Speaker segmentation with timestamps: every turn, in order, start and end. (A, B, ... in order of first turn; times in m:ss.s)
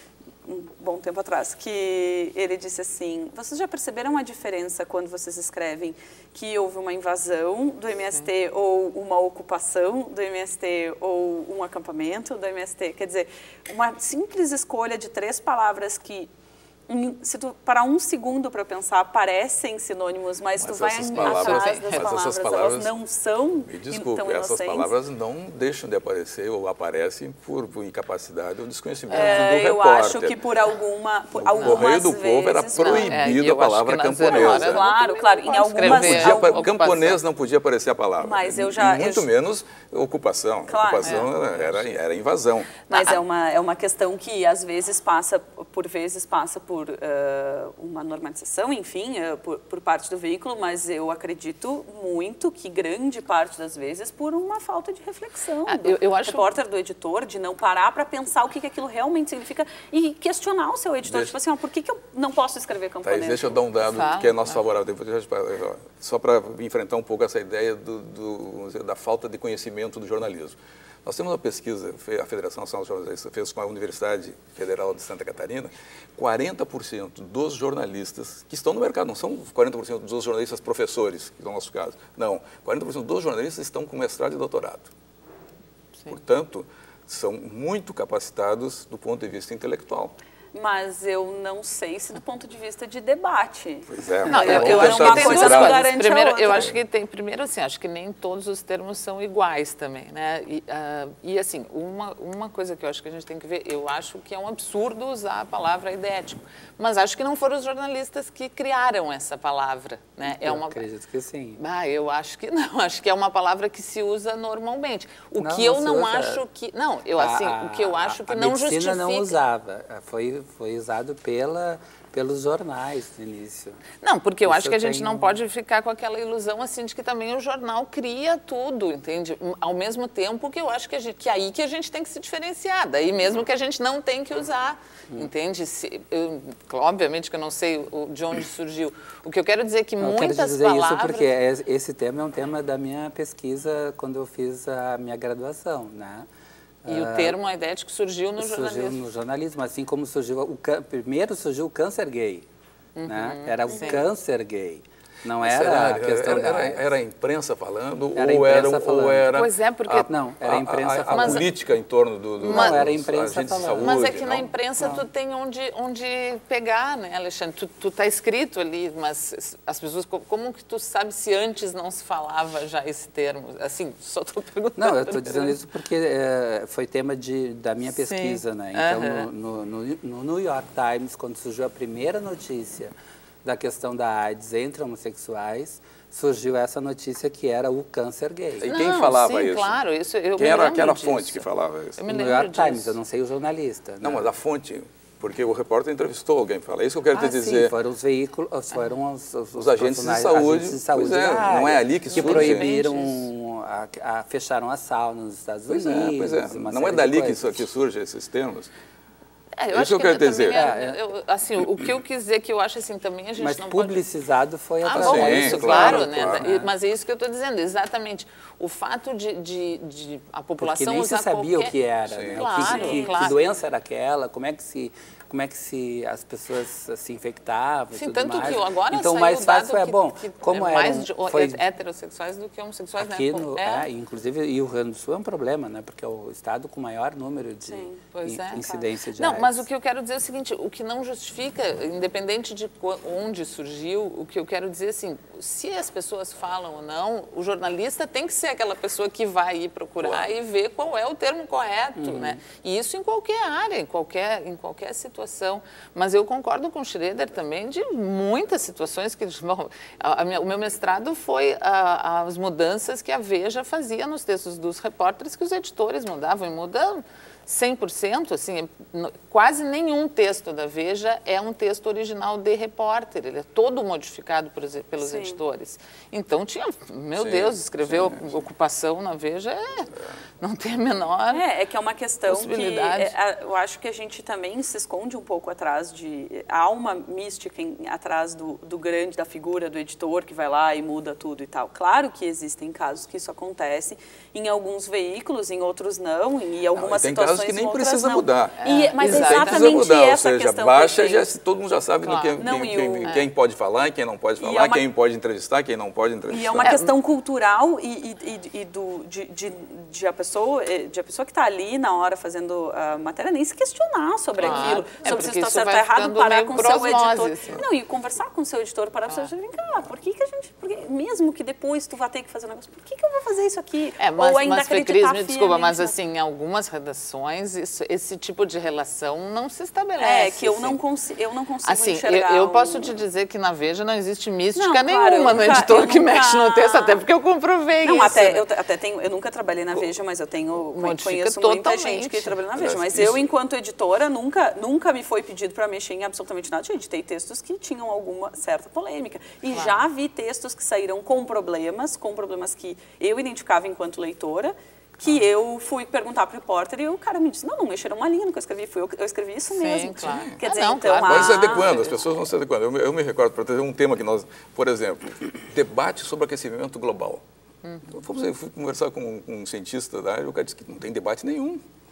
0:00.4-0:16.3 A
0:16.9-0:24.9 A
0:20.6-0:23.0 B
0:21.1-0:22.1 C
0:23.6-0:30.4 B
0:29.1-0:29.5 C
0:29.1-0:33.3 A
0:31.3-0:34.8 B
0:31.6-0:31.9 C
0:32.7-0:37.2 C
0:34.2-0:36.6 A
0:35.8-0:42.8 B
0:38.2-0:39.3 A
0:40.7-0:41.3 A
0:41.0-0:41.3 C
0:42.9-0:43.2 C
0:42.9-1:03.6 A
0:55.6-0:56.5 C
1:01.0-1:01.4 B
1:03.0-1:24.9 B
1:03.8-1:04.6 C
1:26.1-1:30.1 B
1:30.5-1:36.7 A
1:33.9-1:35.9 B
1:34.3-1:50.8 C
1:50.2-1:51.6 D
1:51.6-1:59.4 C
1:55.4-1:56.4 D
1:57.1-2:03.8 D
2:04.0-2:21.3 C
2:04.4-2:05.4 D
2:20.0-2:26.3 D
2:26.8-2:27.4 D
2:26.9-2:29.0 C
2:28.4-2:32.4 D
2:33.0-2:34.0 C
2:33.1-2:36.9 D
2:35.4-2:44.8 B
2:38.2-2:39.3 D
2:39.3-2:40.1 C
2:40.0-2:41.5 D
2:41.1-2:41.5 C
2:42.4-2:42.8 C
2:42.4-2:45.0 D
2:43.8-2:55.6 C
2:54.8-3:02.9 D
2:57.8-2:59.3 C
3:03.4-3:08.7 D
3:08.6-3:09.8 B
3:08.7-3:13.0 C
3:10.4-3:12.0 B
3:12.1-3:14.3 D
3:14.0-3:17.7 B
3:17.1-3:27.5 D
3:19.5-3:22.7 B
3:22.1-3:23.3 C
3:25.7-3:28.7 B
3:29.6-3:34.0 C
3:29.7-3:30.7 B
3:30.5-3:31.0 D
3:33.4-3:36.7 D
3:34.8-3:41.8 C
3:34.9-3:36.4 B
3:40.6-3:51.6 D
3:42.0-3:42.7 B
3:42.3-3:43.4 C
3:42.6-3:43.3 A
3:47.9-3:53.9 C
3:53.0-3:59.6 D
3:57.7-3:58.0 A
3:58.1-4:39.9 C
4:10.0-4:10.3 B
4:12.0-4:12.4 D
4:35.0-4:35.4 A
4:37.2-4:38.4 B
4:40.4-4:41.4 C
4:41.3-5:01.3 A
4:42.3-4:43.1 C
4:56.7-5:06.8 B
4:58.6-4:59.8 C
5:02.0-5:02.4 C
5:02.4-5:03.1 A
5:03.0-5:03.3 C
5:04.4-5:04.8 A
5:06.3-5:25.9 A
5:06.6-5:06.9 C
5:14.4-5:17.6 C
5:24.0-5:30.8 C
5:30.0-5:32.9 A
5:31.6-5:38.5 C
5:34.5-5:37.0 A
5:37.8-6:02.1 A
5:40.7-5:42.4 C
5:42.6-5:43.3 B
5:49.5-5:49.8 C
5:59.5-6:02.1 C
6:00.0-6:00.4 B
6:01.0-6:07.2 B
6:07.6-6:08.0 C
6:07.9-6:11.6 B